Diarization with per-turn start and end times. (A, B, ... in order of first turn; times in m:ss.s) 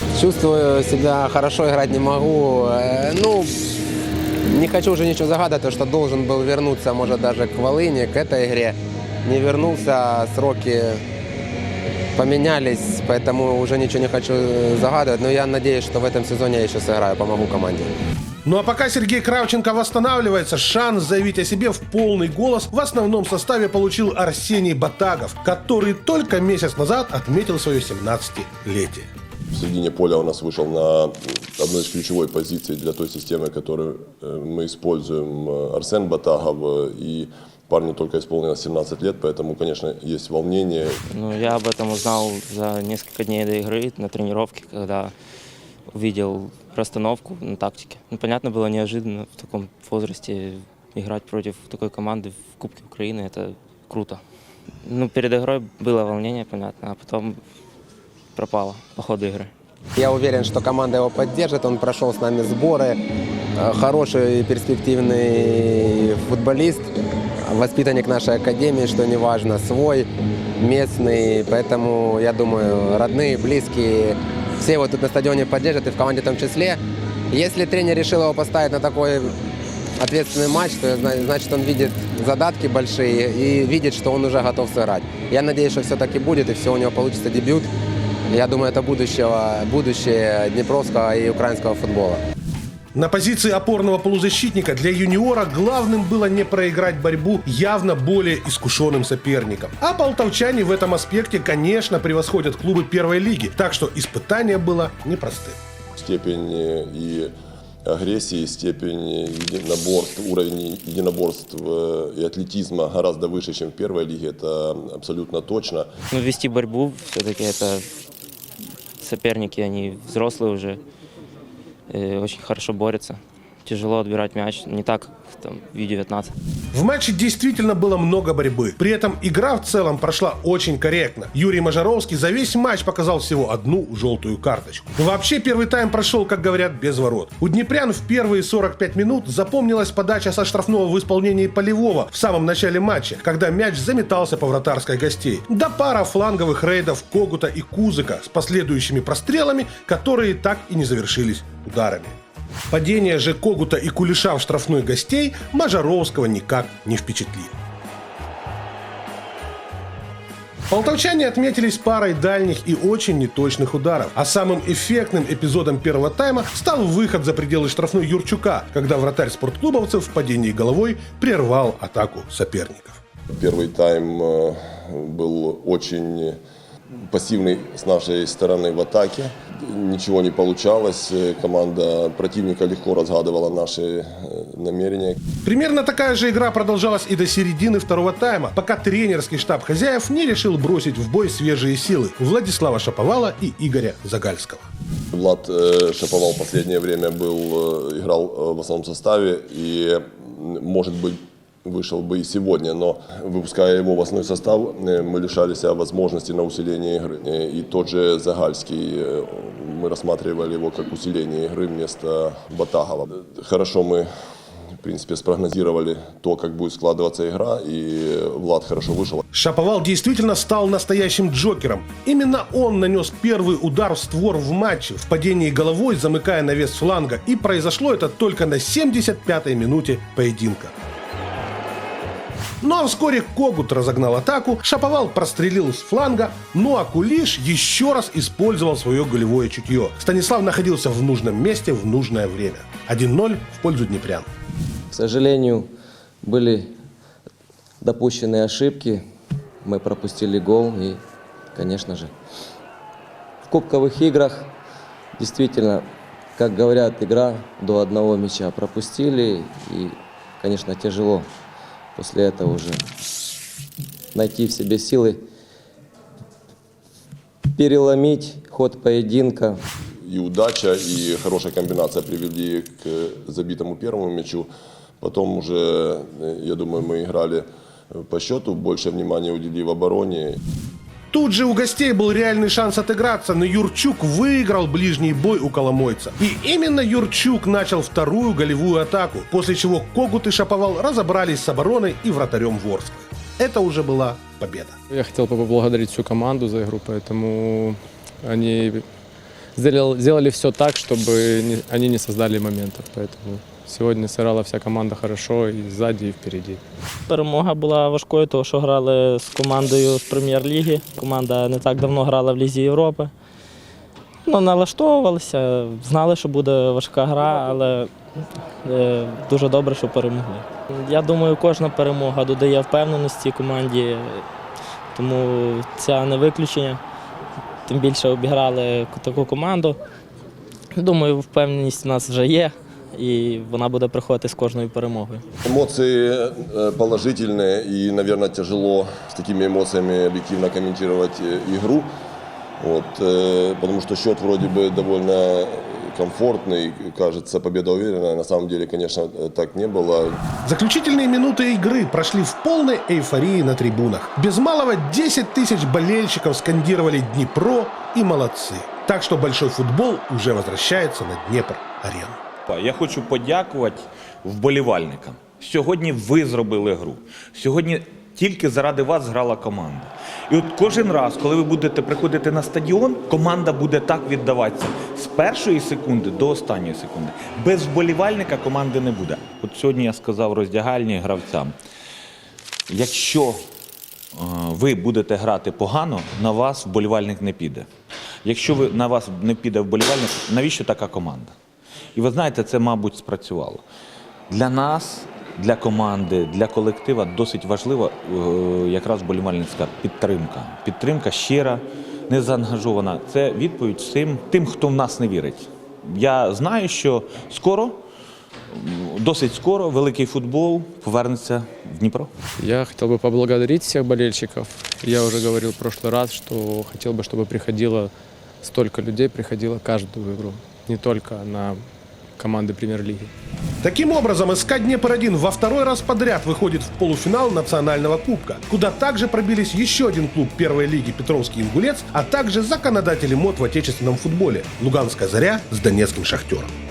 0:00.2-0:03.6 A
0:04.5-0:11.0 A
0:12.2-0:18.0 A
0:18.4-0:29.1 B
0:29.5-0:41.0 C
0:41.1-0:45.1 D
0:45.9-0:54.2 D
0:54.8-0:57.4 D
0:58.4-0:59.5 D
1:00.0-1:03.0 A
1:03.6-1:06.9 A
1:07.5-1:10.1 A
1:10.6-1:16.8 A
1:17.3-1:19.4 A
1:20.0-1:27.7 A
1:28.3-1:32.2 A
1:32.9-1:45.6 B
1:46.0-1:47.3 C
1:47.9-1:55.9 C
1:56.1-1:57.9 D
1:59.0-2:00.8 D
2:01.9-2:06.3 D
2:06.7-2:32.2 B
2:32.7-2:37.5 B
2:40.7-2:53.0 B
2:53.3-2:56.4 C
2:56.9-3:05.2 C
3:05.4-3:14.7 B
3:15.1-3:34.1 C
3:34.8-3:39.2 C
3:39.3-3:50.7 B
3:52.6-4:04.3 B
4:04.9-4:05.7 E
4:06.2-4:06.7 E
4:07.8-4:09.0 E
4:09.6-4:11.0 E
4:11.5-4:12.1 E
4:13.5-4:14.5 E
4:15.2-4:15.8 E
4:16.4-4:21.3 E
4:22.0-4:22.8 E
4:24.1-4:25.2 E
4:27.5-4:29.6 E
4:30.0-4:34.5 C
4:35.0-4:40.4 C
4:41.1-4:54.8 B
4:54.9-4:58.8 F
4:59.6-5:06.6 F
5:07.1-5:13.1 G
5:14.3-5:17.9 G
5:18.6-5:24.2 G
5:24.9-5:26.8 G
5:27.7-5:29.8 G
5:30.8-5:35.2 G
5:35.4-5:41.9 C
5:42.6-5:50.2 C
5:50.4-6:02.2 B
6:02.5-6:21.6 H
6:22.7-6:23.4 H
6:24.2-6:27.7 H
6:28.2-6:31.4 H
6:32.0-6:33.6 H
6:34.3-6:47.8 H
6:48.5-6:52.1 H
6:52.4-7:01.6 F
7:02.2-7:03.1 F
7:03.6-7:16.5 B